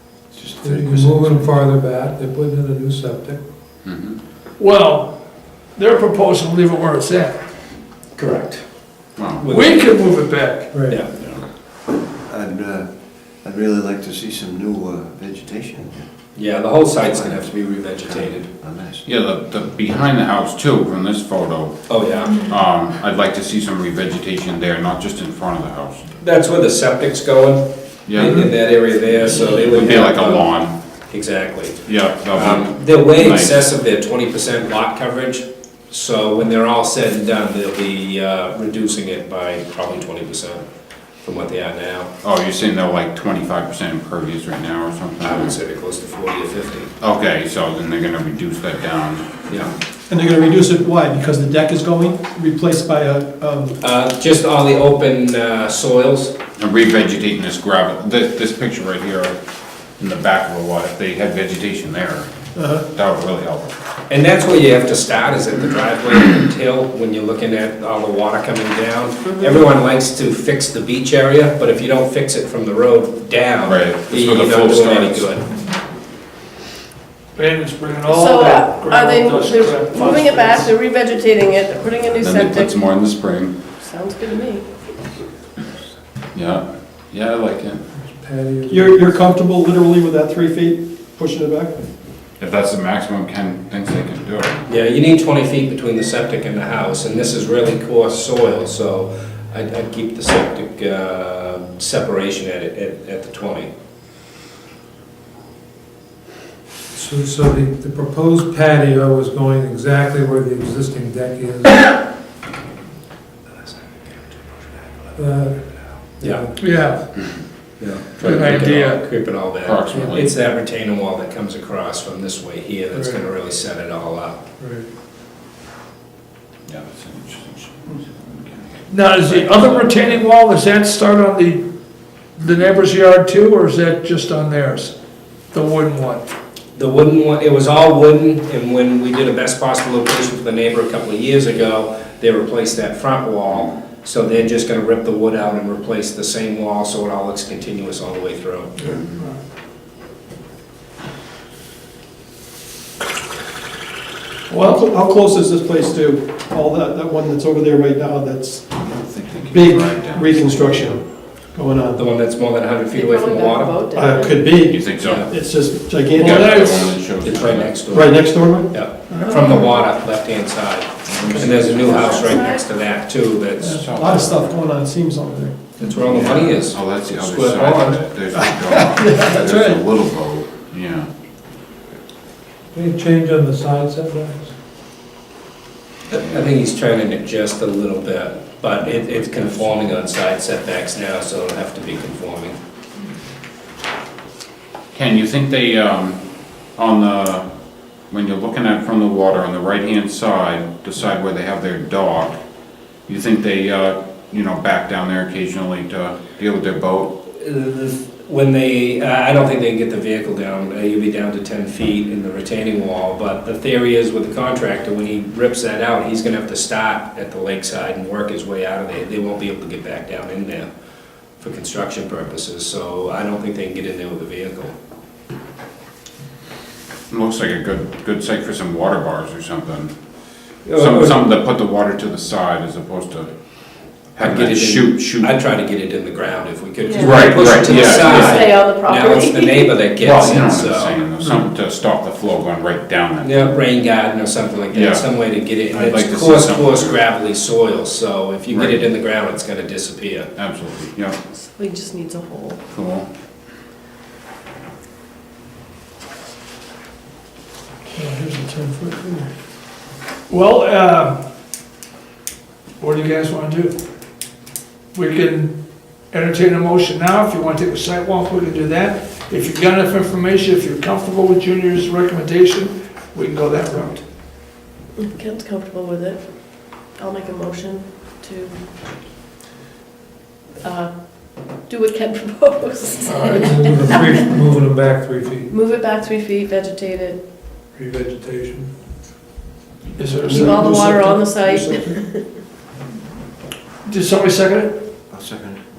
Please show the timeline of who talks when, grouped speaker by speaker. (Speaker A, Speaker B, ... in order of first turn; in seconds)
Speaker A: 0.3-1.5, 12.2-16.2, 16.8-19.1, 295.1-295.6
Speaker B: 0.6-3.4, 10.7-11.0, 87.9-89.2, 106.9-112.0, 115.2-117.0, 119.9-120.2, 124.6-124.8, 182.7-184.5, 283.3-285.5, 287.7-288.7
Speaker C: 3.8-4.2, 9.2-9.5, 11.2-11.4, 19.1-21.9, 22.5-26.1, 29.7-30.8, 31.9-33.7, 42.2-45.5, 47.0-49.5, 56.6-59.4, 60.0-62.3, 62.9-63.8, 73.7-75.3, 82.2-83.5, 86.3-87.8, 92.4-94.6, 117.2-117.4, 118.2-118.7, 119.6-120.4, 126.7-130.2, 158.8-161.0, 164.7-165.2, 166.2-167.8, 171.1-171.5, 173.7-174.6, 176.2-181.1, 189.2-189.9, 194.9-196.2, 196.8-197.5, 198.1-202.4, 203.1-207.2, 227.1-229.9, 230.8-233.3, 234.1-235.4, 237.1-238.3, 240.0-243.6, 244.8-247.0, 248.5-248.9, 250.4-251.2, 252.7-253.1
Speaker D: 4.6-5.2, 5.7-7.4, 9.5-11.0, 77.3-80.7, 116.6-117.0, 118.2-119.5, 128.9-131.7, 132.3-134.9, 135.5-136.3, 148.9-149.4, 154.5-154.8, 166.2-167.0, 169.1-169.5, 260.3-261.2, 262.8-263.8, 264.9-274.1, 283.1-283.5, 290.0-290.8, 293.8-294.8
Speaker E: 8.2-9.9, 10.9-11.1, 16.4-18.5, 21.9-22.5, 26.2-30.5, 31.1-40.6, 41.2-42.1, 45.2-46.9, 49.5-49.7, 53.8-56.4, 64.1-75.5, 94.7-103.7, 116.2-116.5, 117.8-124.4, 136.8-148.7, 161.9-163.8, 165.0-165.3, 167.2-173.8, 175.8-178.0, 186.2-192.6, 207.3-220.7, 221.4-224.7, 230.7-231.2, 234.2-241.1, 243.2-250.3
Speaker F: 22.3-22.6, 73.8-74.6, 78.1-83.0, 83.7-84.8, 162.9-165.2, 169.3-169.9, 171.6-172.7, 236.8-240.0, 251.3-252.6, 275.0-278.6, 280.6-283.8, 285.5-287.2, 290.3-292.4
Speaker G: 50.1-53.8, 62.5-62.9, 88.7-91.8, 154.6-158.7, 159.5-162.0, 163.9-166.9, 167.9-168.8, 173.6-175.7, 178.3-179.8, 258.0-259.3, 290.3-291.9